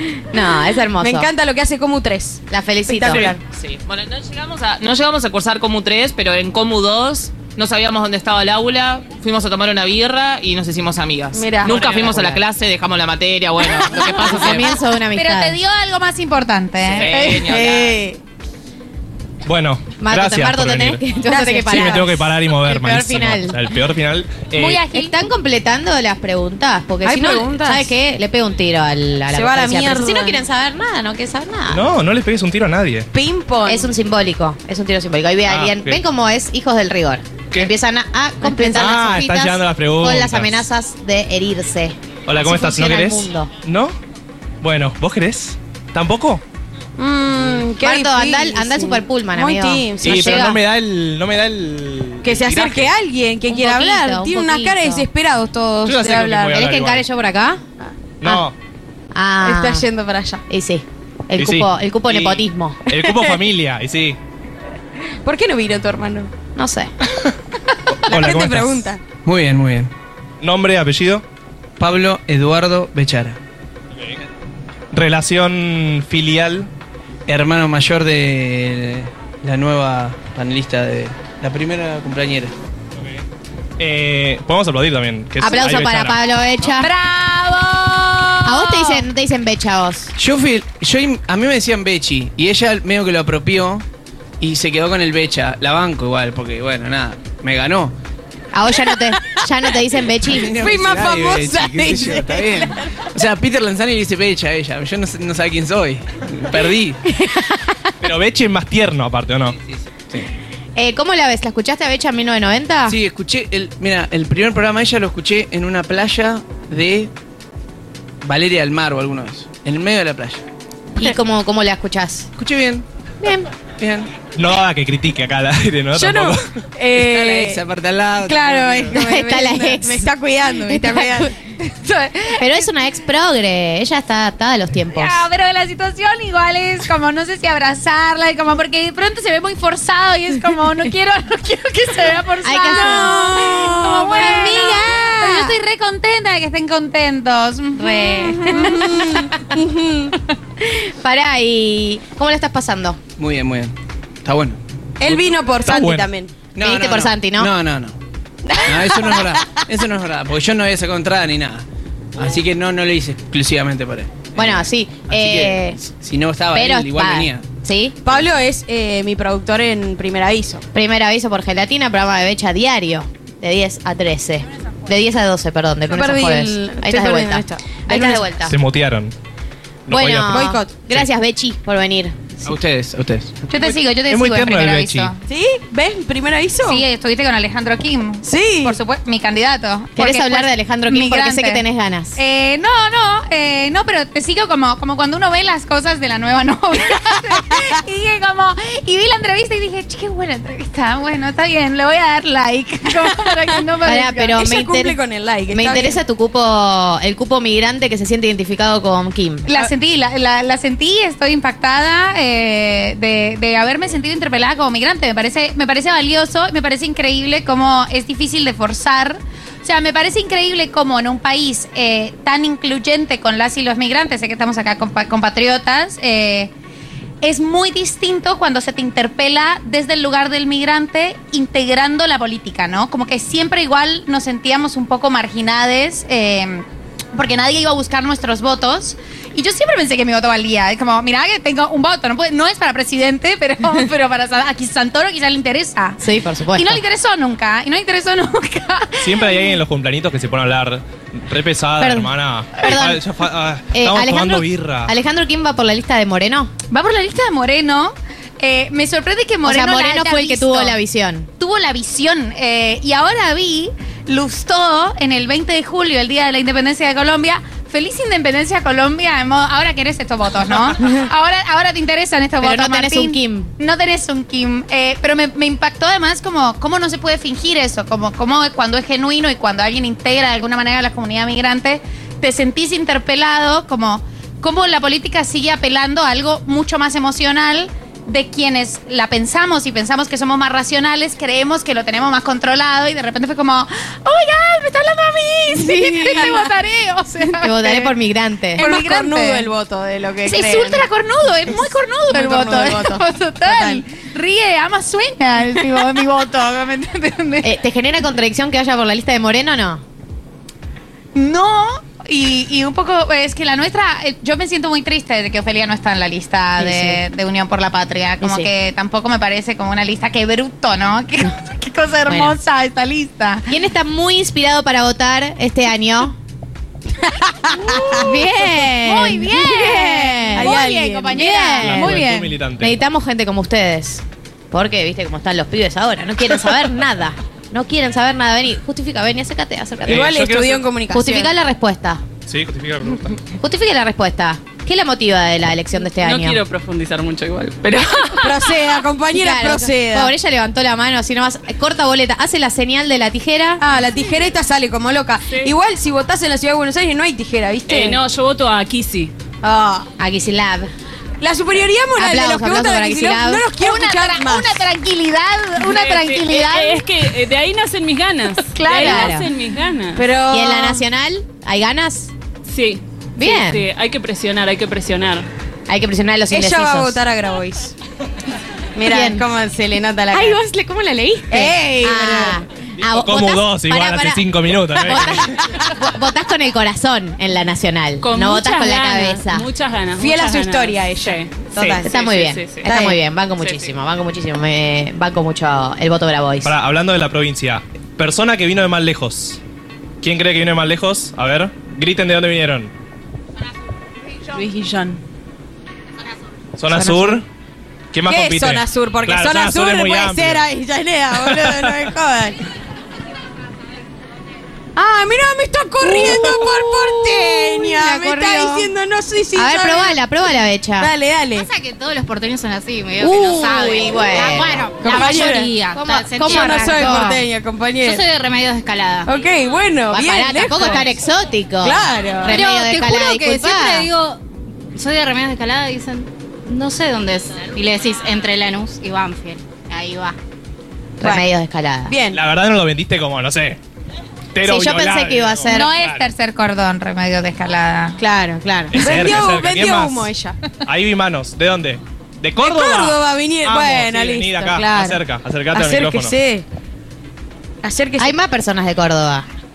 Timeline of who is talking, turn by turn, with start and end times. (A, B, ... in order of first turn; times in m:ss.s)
0:00.3-0:01.3 A
0:01.0-0:03.4 B
0:02.5-0:03.3 A
0:03.1-0:14.7 C
0:11.3-0:11.8 B
0:11.6-0:12.4 A
0:14.0-0:15.6 A
0:15.1-0:17.1 D
0:16.9-0:18.0 C
0:17.0-0:18.2 B
0:19.4-0:21.0 E
0:20.0-0:23.6 A
0:21.2-0:22.1 B
0:21.6-0:24.8 E
0:24.6-0:25.2 D
0:24.8-0:31.9 A
0:27.0-0:27.9 B
0:29.3-0:30.4 B
0:31.7-0:33.1 E
0:33.1-0:33.9 B
0:33.6-0:43.5 A
0:35.5-0:36.0 E
0:38.4-0:40.6 E
0:42.2-0:44.0 E
0:44.6-0:46.4 E
0:47.0-0:50.5 B
0:47.8-0:50.6 A
0:50.0-0:52.9 E
0:52.2-0:56.6 B
0:53.5-0:55.1 A
0:55.8-0:57.0 E
0:56.5-0:57.6 A
0:58.2-0:58.5 E
0:59.1-0:59.9 A
0:59.4-1:00.4 B
1:00.5-1:02.8 A
1:01.4-1:04.2 E
1:03.0-1:03.4 B
1:05.2-1:06.3 B
1:06.5-1:06.9 A
1:08.0-1:08.9 E
1:08.1-1:09.0 B
1:09.2-1:09.9 F
1:10.4-1:11.2 E
1:11.8-1:13.4 F
1:14.9-1:16.7 E
1:17.3-1:22.5 F
1:23.8-1:26.2 E
1:25.4-1:26.9 A
1:26.8-1:29.0 D
1:28.4-1:30.1 A
1:30.2-1:33.8 F
1:34.4-1:37.9 F
1:38.5-1:40.5 A
1:40.3-1:42.9 B
1:40.3-1:47.0 F
1:48.0-1:49.6 E
1:50.8-1:52.9 A
1:52.9-1:57.1 F
1:58.2-2:00.4 F
2:00.9-2:02.3 A
2:02.4-2:02.8 F
2:03.2-2:03.5 A
2:03.8-2:04.1 F
2:04.3-2:06.5 E
2:05.9-2:07.6 B
2:07.0-2:08.8 F
2:08.2-2:11.3 B
2:08.9-2:10.1 A
2:10.6-2:11.3 A
2:11.6-2:12.6 D
2:12.4-2:15.2 A
2:14.9-2:28.9 D
2:22.4-2:25.6 A
2:22.8-2:24.2 B
2:27.8-2:29.1 A
2:28.4-2:30.1 B
2:30.6-2:33.0 A
2:33.2-2:35.3 F
2:35.0-2:36.3 B
2:35.6-2:36.1 E
2:36.5-2:38.0 F
2:36.6-2:37.5 A
2:38.6-2:47.4 F
2:44.4-2:45.8 A
2:46.5-2:48.0 A
2:48.0-2:50.6 B
2:50.7-2:58.5 A
2:55.9-2:58.2 B
2:58.4-2:59.1 E
2:59.9-3:01.1 E
2:59.9-3:02.4 A
3:00.3-3:00.7 B
3:02.4-3:03.5 F
3:03.5-3:05.2 D
3:03.5-3:05.1 E
3:05.3-3:06.8 B
3:06.6-3:11.6 D
3:08.2-3:08.8 B
3:10.0-3:12.2 A
3:12.2-3:24.4 D
3:23.8-3:25.0 A
3:24.4-3:26.0 B
3:25.5-3:29.5 A
3:29.4-3:46.5 D
3:47.2-4:06.0 D
4:06.0-4:06.8 A
4:06.5-4:09.6 D
4:09.0-4:14.9 E
4:11.8-4:13.0 A
4:13.7-4:16.5 A
4:16.7-4:20.8 D
4:19.4-4:21.3 A
4:21.4-4:57.9 D
4:32.4-4:33.5 A
4:55.6-4:56.5 B
4:57.2-4:57.8 B
4:57.4-4:58.6 A
4:58.6-5:00.8 B
4:58.6-4:59.5 D
5:00.2-5:07.5 D
5:01.6-5:03.8 B
5:07.4-5:09.8 A
5:11.1-5:23.5 D
5:16.6-5:17.0 A
5:18.2-5:18.5 A
5:22.1-5:22.4 A
5:23.5-5:26.1 A
5:27.5-5:28.0 B
5:27.6-5:32.0 A
5:27.8-5:32.3 D
5:30.3-5:32.0 B
5:31.6-5:32.8 E
5:32.6-5:40.1 A
5:39.8-5:40.7 E
5:39.8-5:41.3 B
5:40.9-5:42.0 A
5:42.3-5:43.2 E
5:43.4-5:46.4 A
5:46.0-5:48.4 G
5:48.2-5:50.1 B
5:49.1-5:53.6 A
5:53.6-5:58.0 B
5:55.3-5:55.5 G
5:57.7-5:59.1 G
5:59.4-5:59.9 B
6:00.0-6:00.7 A
6:01.2-6:04.7 B
6:01.9-6:03.4 A
6:03.5-6:07.2 D
6:05.6-6:10.0 G
6:08.4-6:09.2 D
6:08.7-6:09.1 B
6:08.7-6:09.3 A
6:09.9-6:10.8 B
6:10.3-6:12.1 A
6:12.4-6:15.2 G
6:13.2-6:13.6 A
6:15.7-6:17.0 A
6:16.3-6:17.7 B
6:18.7-6:20.4 B
6:18.9-6:19.2 A
6:21.3-6:22.4 B
6:21.3-6:29.5 A
6:22.9-6:25.3 E
6:28.0-6:32.8 G
6:30.0-6:31.9 B
6:31.5-6:36.5 A
6:32.6-6:33.0 B
6:33.4-6:33.7 G
6:36.4-6:39.4 E
6:40.0-6:42.7 E
6:44.3-6:45.0 H
6:46.6-6:47.2 E
6:46.7-6:47.2 B
6:47.9-6:50.4 E
6:48.1-6:52.4 B
6:51.2-6:51.9 E
6:54.8-7:00.0 B
6:55.8-6:58.7 A
6:59.3-7:00.9 A
7:00.8-7:01.5 B
7:01.4-7:07.2 I
7:01.4-7:01.8 H
7:03.0-7:07.2 A
7:03.0-7:03.4 B
7:03.2-7:06.9 H
7:04.8-7:05.5 B
7:06.2-7:08.0 B
7:07.8-7:09.1 I
7:07.9-7:09.0 H
7:09.0-7:10.8 B
7:09.9-7:13.9 A
7:11.6-7:12.4 B
7:12.3-7:14.2 I
7:13.3-7:13.8 H
7:14.8-7:20.1 I
7:16.5-7:17.7 H
7:18.8-7:19.8 H
7:21.0-7:21.2 B
7:21.0-7:21.9 A
7:21.9-7:22.2 B
7:22.1-7:23.6 E
7:24.3-7:26.0 E
7:24.4-7:25.7 A
7:25.5-7:28.0 D
7:28.0-7:30.4 B
7:28.7-7:30.1 E
7:30.6-7:36.1 E
7:32.4-7:36.4 B
7:37.6-7:38.1 B
7:38.0-7:39.2 A